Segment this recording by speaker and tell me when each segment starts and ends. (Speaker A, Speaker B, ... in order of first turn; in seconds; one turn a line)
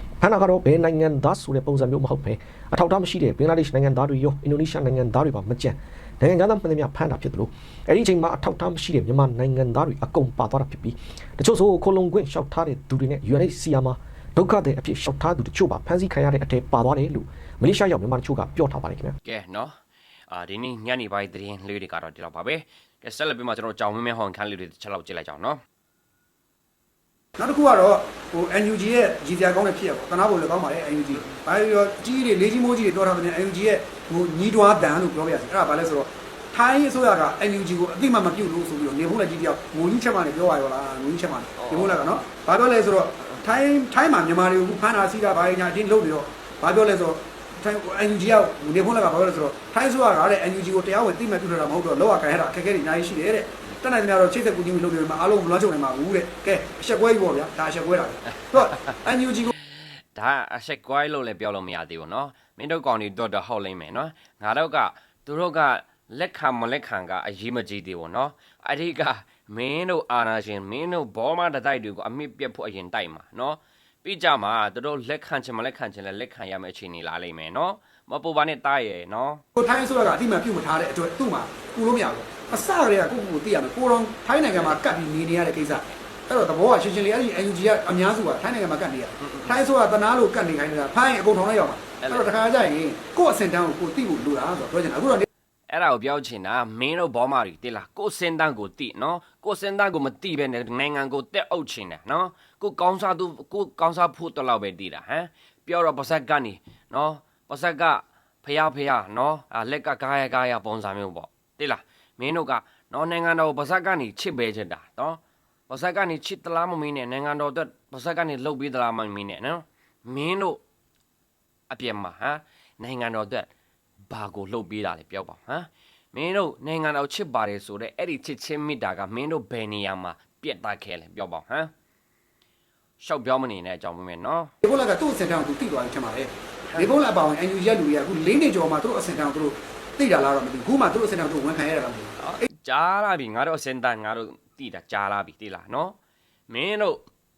Speaker A: 0.2-19.2
Speaker B: 19.2-19.8
Speaker B: 20.3-25.6
Speaker C: 27.4-59.5
Speaker B: 41.6-42.1
Speaker B: 58.5-58.9
Speaker B: 59.6-79.4
Speaker C: 79.5-95.3
Speaker B: 89.2-89.6
Speaker B: 92.0-92.4
Speaker B: 95.7-120.6
Speaker B: 121.7-123.5
Speaker B: 124.1-131.7
Speaker B: 133.0-134.5
Speaker C: 134.6-142.4
Speaker B: 142.2-146.0
Speaker B: 146.5-147.1